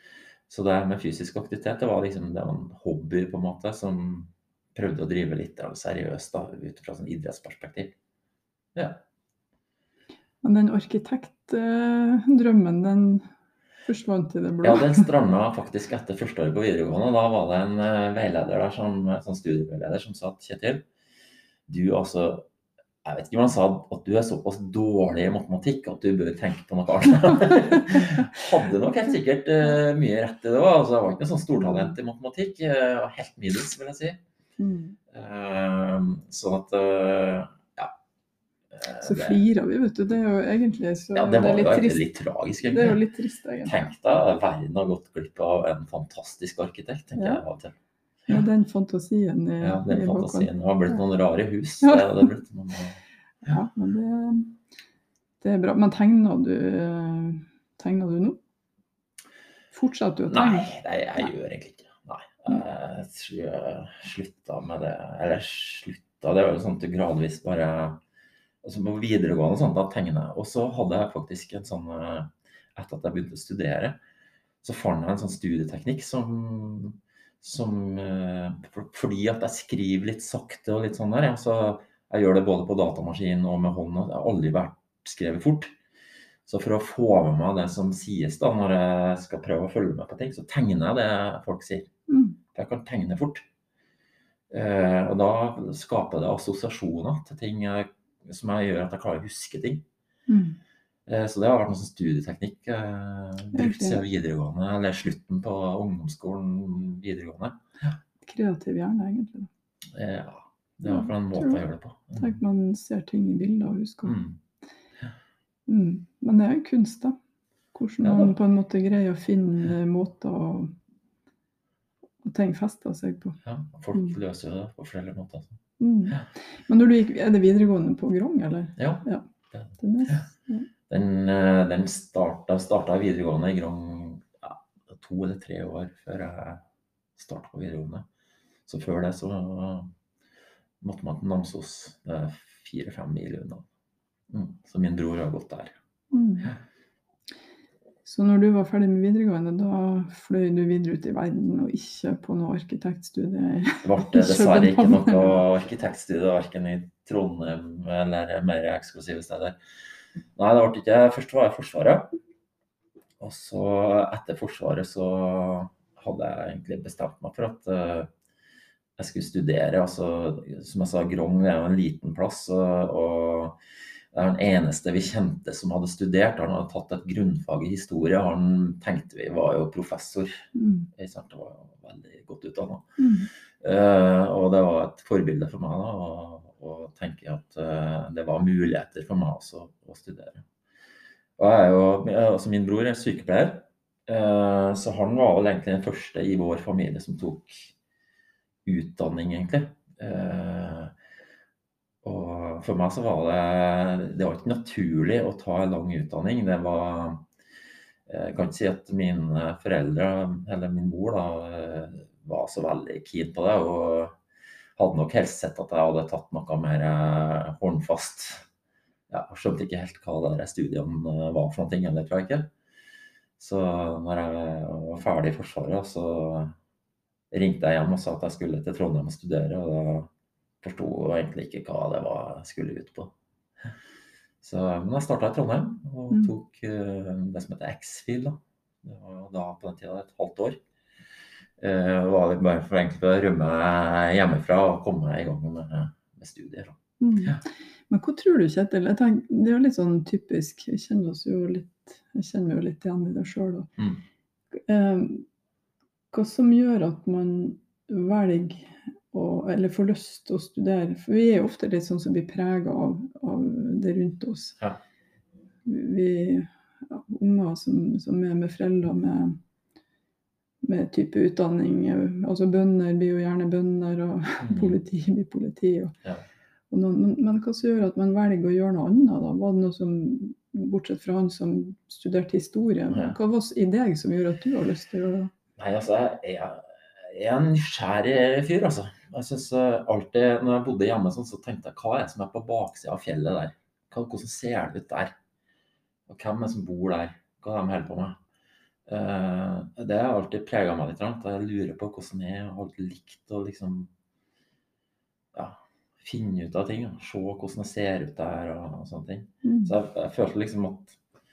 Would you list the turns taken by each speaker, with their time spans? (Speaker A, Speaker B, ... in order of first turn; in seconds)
Speaker A: 0.5-7.9, 8.8-9.0, 14.6-20.8, 21.7-22.4, 23.1-34.2, 35.1-37.9, 38.7-39.4, 41.1-43.0, 43.6-47.7, 49.6-53.0, 60.3-68.0, 68.6-74.0, 74.6-85.8, 86.5-91.9, 92.5-93.4, 94.5-99.8, 101.1-108.0, 109.9-112.4, 114.0-114.4, 118.0-118.3, 123.5-125.6, 128.8-130.3, 130.9-136.6, 137.2-138.1, 138.7-139.9, 140.8-143.7, 144.3-145.8, 153.8-159.6, 160.4-162.1, 163.2-168.1, 169.0-173.6, 174.1-180.4, 180.9-183.0, 183.6-190.4, 191.4-197.7, 198.7-200.9, 202.0-207.2, 208.1-214.2, 214.8-218.5, 219.1-222.5, 223.4-226.6, 227.3-230.1, 230.6-233.1, 234.4-240.6, 241.6-247.4, 274.4-274.8, 282.9-283.2, 285.6-295.1, 296.1-298.2, 298.9-303.9, 305.3-311.0
Speaker B: 10.4-13.3, 13.8-15.1, 34.6-35.0, 39.0-42.0, 42.6-43.8, 47.2-47.4, 48.3-51.0, 51.8-52.3, 53.5-54.5, 55.4-58.4, 59.7-60.7, 92.1-92.4, 100.3-100.6, 103.5-104.0, 108.2-109.5, 110.9-111.6, 112.2-114.2, 115.7-117.2, 117.7-120.7, 122.2-123.4, 125.8-129.2, 129.8-130.7, 146.1-146.5, 148.1-155.4, 180.6-180.9, 183.0-183.3, 247.0-253.7, 254.6-255.2, 256.1-264.6, 265.6-269.4, 270.6-275.9, 276.7-285.3, 309.4-309.7